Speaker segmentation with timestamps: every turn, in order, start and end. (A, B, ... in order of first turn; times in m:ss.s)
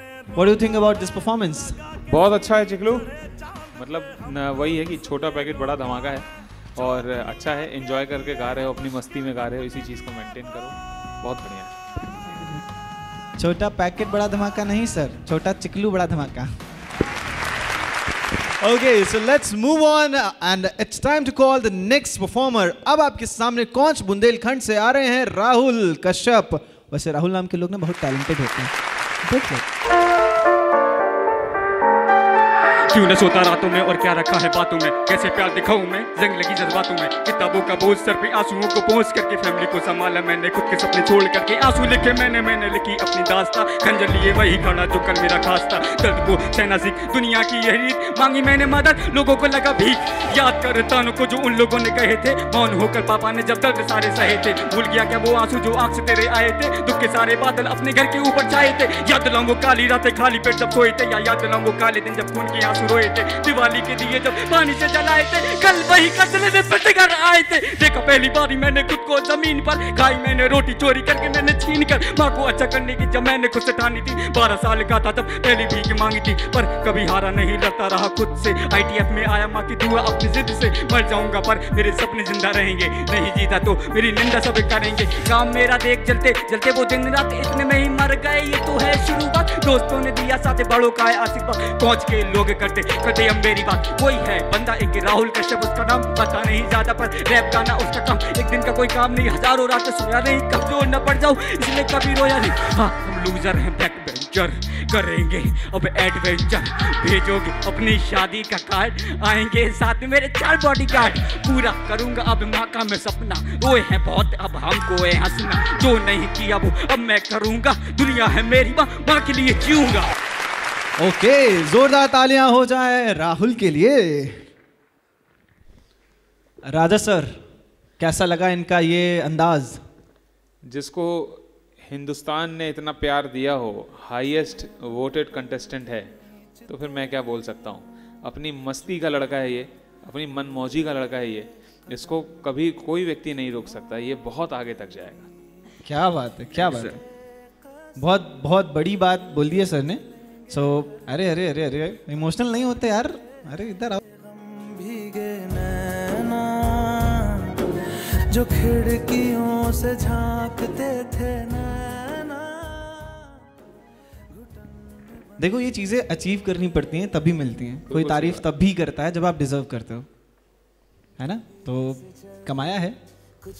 0:00.3-0:01.8 A
0:02.1-0:03.1 B
0:03.7-0:06.2 B
0:06.8-0:11.7 B
0:13.4-0:16.5 A
0:18.6-0:28.7 A
0:29.2-0:29.6 A
0:32.9-2:00.1 C
2:01.0-2:04.4 A
2:06.7-2:07.3 A
2:08.0-2:09.8 A
2:10.7-2:16.1 B
2:16.7-2:25.3 B
2:25.8-2:27.0 A
2:28.0-2:34.0 A
2:34.2-2:37.2 D
2:38.3-2:42.6 D
2:45.4-2:50.0 A
2:47.9-2:48.4 B
2:51.2-2:53.0 A